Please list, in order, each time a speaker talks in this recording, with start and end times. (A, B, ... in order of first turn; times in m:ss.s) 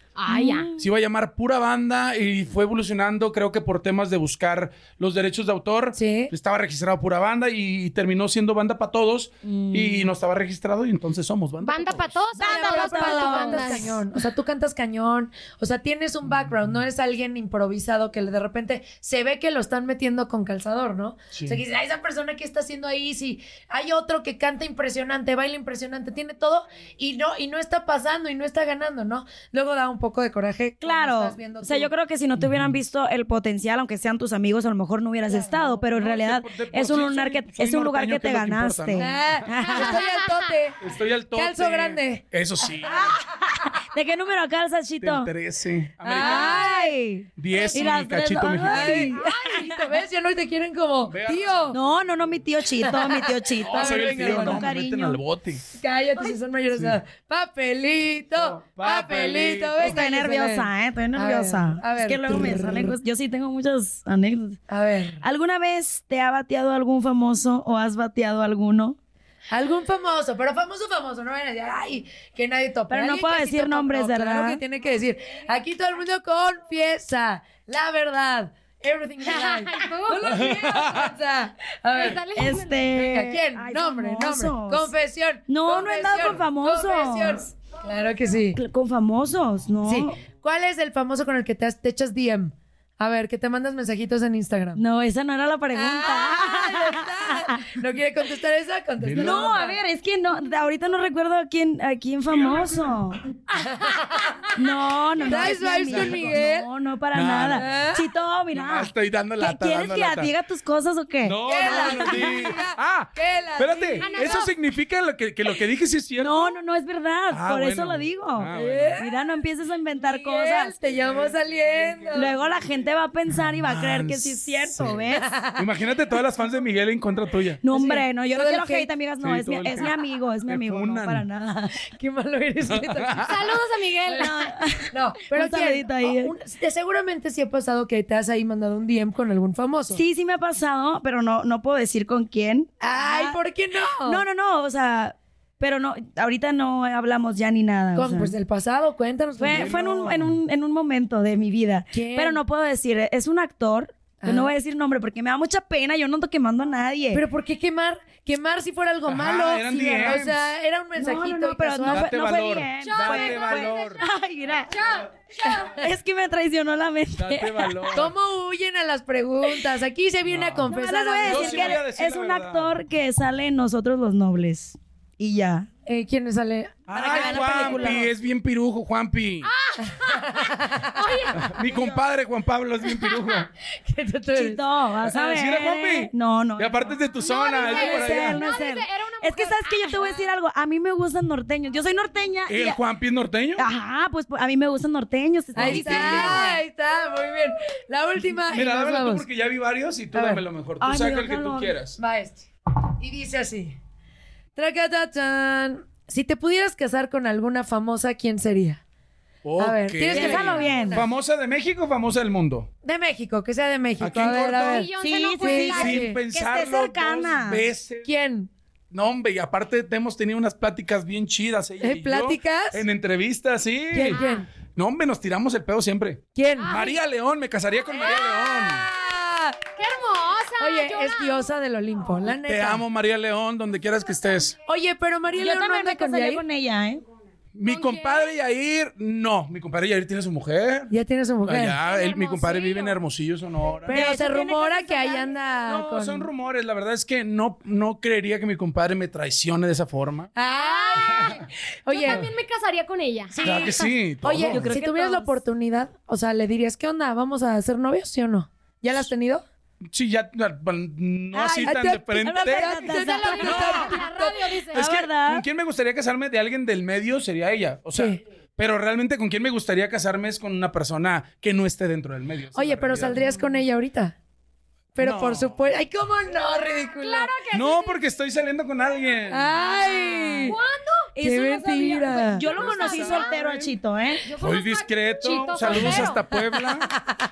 0:00.2-0:00.7 A
0:00.3-0:00.8 B
0:00.8-0:12.2 C
0:05.9-0:06.3 D
0:09.4-0:10.1 B
0:11.6-0:13.9 A
0:12.3-0:31.9 D
0:12.4-0:14.0 B
0:16.3-0:16.7 C
0:21.3-0:21.6 C
0:30.8-0:40.0 B
0:32.4-0:32.7 C
0:35.3-0:35.7 D
0:35.8-0:39.2 C
0:38.9-0:40.8 D
0:39.6-0:40.5 A
0:40.8-0:43.2 C
0:41.3-0:42.2 D
0:42.8-0:45.3 B
0:45.0-0:46.6 C
0:46.0-0:46.9 D
0:46.1-0:49.8 B
0:47.4-0:49.1 C
0:47.5-0:47.9 A
0:47.7-0:48.1 D
0:48.6-0:51.8 D
0:49.1-0:49.6 A
0:51.1-0:51.8 C
0:51.7-0:55.2 B
0:52.8-0:54.7 D
0:53.6-0:55.6 C
0:55.7-1:03.0 D
0:56.7-0:57.0 C
0:58.4-0:59.9 C
0:59.8-1:04.6 B
1:04.7-1:05.2 D
1:05.2-1:09.0 B
1:09.5-1:22.2 D
1:12.9-1:14.6 B
1:19.2-1:20.9 A
1:20.3-1:21.1 C
1:21.9-1:22.8 A
1:22.3-1:24.9 B
1:22.9-1:28.6 D
1:25.5-1:27.5 B
1:28.5-1:30.2 B
1:29.8-1:34.8 D
1:34.8-1:37.8 B
1:35.7-1:39.8 D
1:39.0-1:39.6 C
1:39.2-1:43.2 B
1:43.8-1:44.4 D
1:44.5-1:52.5 B
1:45.3-1:46.7 D
1:45.4-1:46.4 C
1:47.1-1:47.7 C
1:47.5-1:48.0 D
1:48.5-1:50.3 C
1:51.2-1:56.5 C
1:51.4-1:54.3 D
1:54.0-1:54.6 A
1:56.2-2:00.8 B
1:57.3-1:59.0 C
1:58.5-1:59.0 D
2:00.0-2:02.3 D
2:02.1-2:05.3 B
2:03.6-2:05.0 C
2:05.1-2:05.7 D
2:05.6-2:07.6 C
2:07.6-2:11.8 B
2:07.7-2:08.9 D
2:09.2-2:09.9 C
2:10.4-2:11.2 C
2:11.9-2:13.3 D
2:12.7-2:13.4 C
2:13.2-2:14.3 A
2:14.1-2:14.3 D
2:14.2-2:16.3 B
2:14.9-2:20.0 D
2:19.9-2:23.4 B
2:22.8-2:24.2 D
2:24.0-2:28.3 B
2:28.0-2:29.8 D
2:29.4-2:37.2 B
2:29.5-2:30.4 C
2:31.9-2:32.4 D
2:34.2-2:34.5 D
2:37.1-2:42.1 D
2:39.1-2:40.4 C
2:40.0-2:40.3 B
2:41.0-2:44.8 B
2:41.9-2:44.0 C
2:42.8-2:44.0 A
2:44.7-2:45.7 A
2:45.8-2:48.0 B
2:47.1-2:48.1 C
2:47.9-2:51.8 D
2:50.3-2:50.7 C
2:50.6-2:55.7 B
2:51.2-2:52.7 C
2:55.8-2:58.1 D
2:56.9-2:59.5 C
2:56.9-2:58.1 B
2:59.4-3:00.4 A
3:00.1-3:01.9 D
3:00.9-3:01.4 A
3:01.3-3:03.5 C
3:03.9-3:04.6 D
3:04.3-3:06.9 B
3:05.0-3:08.4 C
3:07.2-3:10.2 A
3:07.6-3:12.8 B
3:12.5-3:13.6 C
3:13.6-3:16.6 B
3:15.5-3:16.5 C
3:15.6-3:19.2 D
3:18.5-3:22.0 C
3:20.1-3:20.4 D
3:20.8-3:21.7 B
3:22.0-3:23.8 D
3:24.6-3:28.8 D
3:29.4-3:32.7 C
3:29.6-3:31.0 D
3:30.1-3:31.0 B
3:32.8-3:36.2 D
3:34.0-3:34.9 C
3:34.4-3:36.0 A
3:35.0-3:37.6 B
3:35.8-3:38.1 C
3:38.0-3:38.5 D
3:38.9-3:48.9 C
3:41.8-3:42.8 D
3:44.0-3:44.4 D
3:44.1-3:44.4 A
3:46.3-3:46.7 D
3:46.6-3:47.0 A
3:47.9-3:49.6 D
3:48.0-3:48.4 A
3:49.7-3:51.5 A
3:50.6-3:52.8 D
3:52.2-3:54.6 C
3:54.6-3:56.4 D
3:55.3-3:57.0 B
3:57.5-4:00.9 C
3:57.6-3:58.4 A
4:00.9-4:01.8 D
4:01.4-4:04.0 C
4:01.8-4:03.0 A
4:03.8-4:05.4 B
4:03.8-4:06.3 D
4:05.6-4:10.3 C
4:10.3-4:12.2 D
4:10.6-4:11.3 A
4:11.9-4:13.4 A
4:13.3-4:19.4 D
4:13.4-4:14.7 C
4:14.5-4:15.4 B
4:19.9-4:23.8 C
4:21.3-4:23.9 B
4:21.6-4:24.7 D
4:22.9-4:24.8 A
4:24.7-4:33.3 C
4:24.7-4:25.4 B
4:27.9-4:28.2 D
4:32.5-4:34.2 D
4:33.2-4:33.6 B
4:35.0-4:37.4 D
4:35.0-4:35.6 C
4:37.0-4:38.0 A
4:37.5-4:39.5 C
4:39.1-4:41.1 A
4:39.3-4:40.6 D
4:39.9-4:40.6 B
4:41.1-4:44.2 B
4:41.2-4:42.4 D
4:42.0-4:43.4 A
4:42.4-4:43.6 C
4:44.2-4:46.2 A
4:44.4-4:46.9 C
4:46.7-4:47.2 D